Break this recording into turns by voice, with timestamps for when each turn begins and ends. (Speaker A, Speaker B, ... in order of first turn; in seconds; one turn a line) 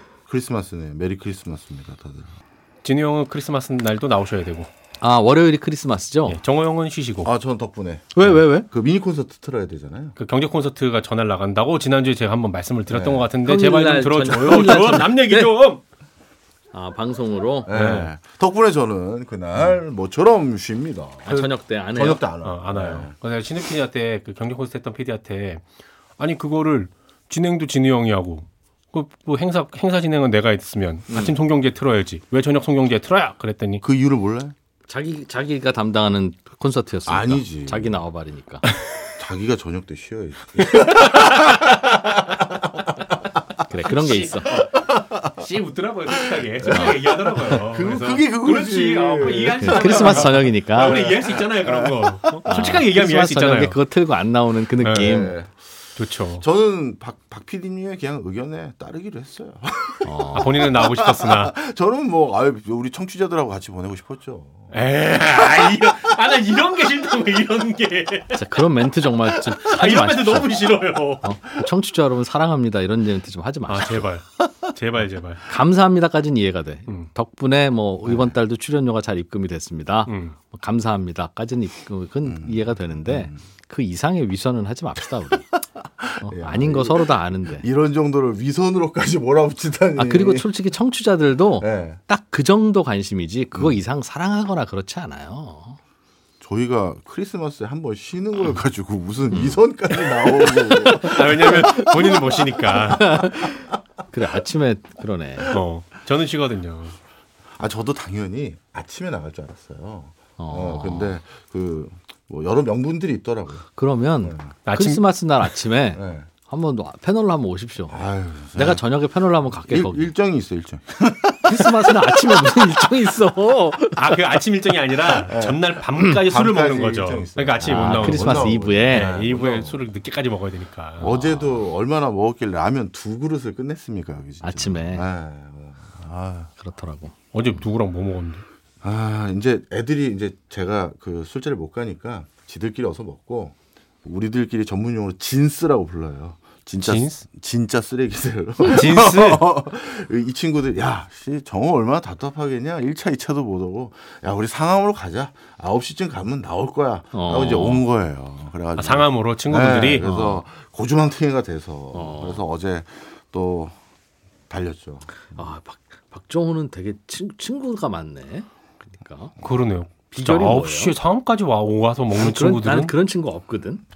Speaker A: 0.3-2.4
Speaker B: 2.8-4.7
Speaker C: 5.0-6.4
Speaker B: 6.3-7.3
Speaker A: 7.2-10.2
Speaker C: 8.2-8.7
Speaker B: 10.2-15.8
Speaker A: 12.9-13.3
Speaker C: 13.4-15.5
Speaker C: 16.7-17.7
Speaker A: 17.7-23.1
Speaker B: 17.7-18.1
Speaker C: 21.2-22.2
Speaker B: 22.4-25.6
Speaker B: 26.2-33.8
Speaker C: 31.1-31.4
Speaker A: 33.8-34.5
Speaker C: 34.9-38.7
Speaker A: 37.1-38.0
Speaker A: 39.2-42.9
Speaker B: 40.8-41.6
Speaker C: 43.7-44.6
Speaker B: 43.9-53.8
Speaker A: 44.5-45.5
Speaker A: 46.1-52.5
Speaker C: 46.7-47.0
Speaker C: 49.6-51.1
Speaker C: 52.5-55.4
Speaker B: 54.8-55.3
Speaker A: 55.0-55.5
Speaker B: 56.0-56.4
Speaker A: 56.4-64.7
Speaker C: 60.0-60.6
Speaker B: 60.3-61.6
Speaker B: 64.7-68.4
Speaker C: 68.3-70.6
Speaker B: 69.3-71.5
Speaker C: 71.2-74.1
Speaker B: 73.7-75.4
Speaker C: 75.5-85.5
Speaker A: 78.1-78.3
Speaker B: 80.1-80.4
Speaker A: 82.2-83.4
Speaker A: 85.8-90.5
Speaker C: 86.2-87.7
Speaker C: 90.0-95.8
Speaker A: 91.6-92.0
Speaker A: 96.4-102.8
Speaker C: 99.3-99.6
Speaker B: 100.8-103.3
Speaker C: 102.6-105.5
Speaker B: 105.4-107.0
Speaker A: 107.5-113.7
Speaker C: 110.4-111.2
Speaker C: 113.8-118.0
Speaker A: 114.2-114.5
Speaker B: 114.7-115.5
Speaker A: 116.0-116.3
Speaker A: 117.9-118.8
Speaker C: 118.5-120.1
Speaker A: 119.7-122.7
Speaker C: 121.4-124.2
Speaker B: 124.0-131.4
Speaker A: 125.2-129.8
Speaker C: 127.6-129.1
Speaker A: 131.0-136.5
Speaker C: 134.4-135.1
Speaker C: 136.6-137.2
Speaker B: 137.3-138.4
Speaker A: 138.8-163.8
Speaker B: 146.8-147.2
Speaker B: 148.6-149.4
Speaker C: 157.1-157.8
Speaker B: 158.8-160.4
Speaker C: 161.9-162.4
Speaker A: 164.5-165.4
Speaker C: 165.3-169.3
Speaker B: 169.4-172.9
Speaker C: 170.1-170.9
Speaker C: 172.2-173.8